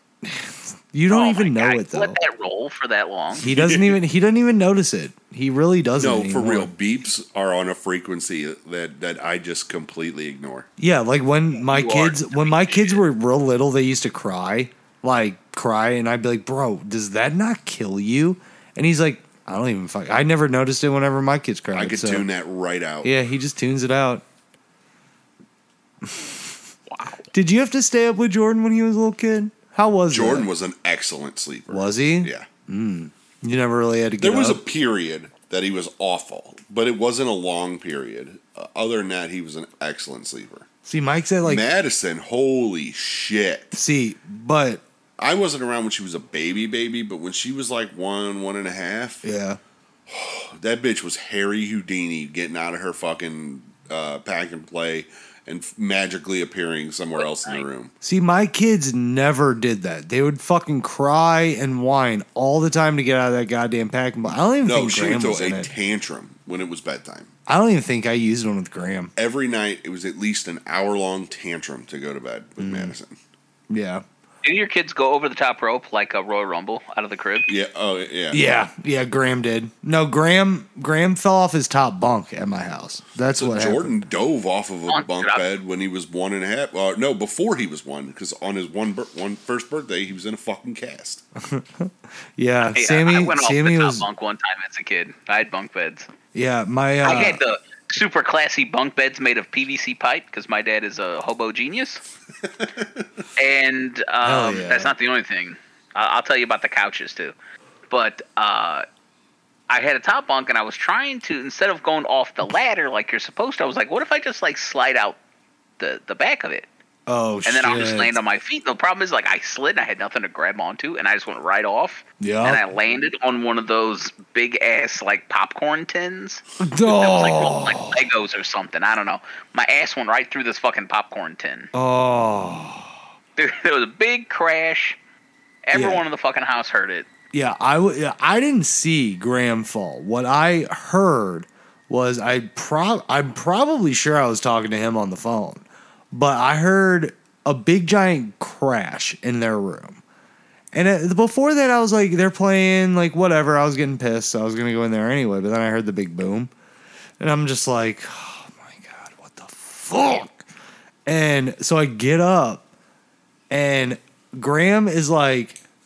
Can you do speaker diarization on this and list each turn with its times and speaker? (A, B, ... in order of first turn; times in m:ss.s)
0:00.2-0:02.2 A
0:01.1-0:03.4 B
0:03.4-0:04.0 C
0:03.4-0:06.7 A
0:06.0-0:10.7 C
0:10.8-0:22.2 A
0:11.7-0:13.0 B
0:21.7-0:23.1 C
0:23.0-0:24.2 A
0:26.0-0:26.3 A
0:26.9-0:27.2 B
0:27.3-0:30.5 A
0:30.1-0:32.5 C
0:31.7-0:34.6 A
0:34.2-0:40.7 C
0:40.8-0:41.6 A
0:41.4-0:43.7 C
0:43.7-0:44.8 A
0:45.2-0:49.2 C
0:49.2-0:49.6 A
0:50.1-0:57.9 C
0:57.1-0:57.6 B
0:58.0-1:05.7 A
1:04.6-1:07.3 C
1:07.5-1:09.1 A
1:09.2-1:13.2 C
1:12.6-1:12.9 A
1:13.7-1:14.0 A
1:14.4-1:17.5 B
1:17.5-1:18.4 C
1:18.3-1:24.0 A
1:23.3-1:31.2 C
1:24.9-1:25.4 B
1:31.4-1:34.1 A
1:32.7-1:36.1 B
1:36.3-1:37.4 A
1:37.0-1:42.0 B
1:43.4-1:47.3 B
1:44.2-1:44.9 A
1:47.9-1:48.8 B
1:49.7-1:55.2 B
1:55.8-1:56.7 B
1:57.1-1:58.1 A
1:57.4-2:11.7 B
2:02.2-2:02.6 A
2:06.6-2:08.0 A
2:11.7-2:12.9 A
2:13.4-2:15.0 B
2:15.6-2:17.1 B
2:15.7-2:16.0 A
2:17.3-2:30.0 A
2:30.7-2:36.5 A
2:37.2-2:40.4 A
2:41.0-2:42.6 A
2:43.5-2:45.6 A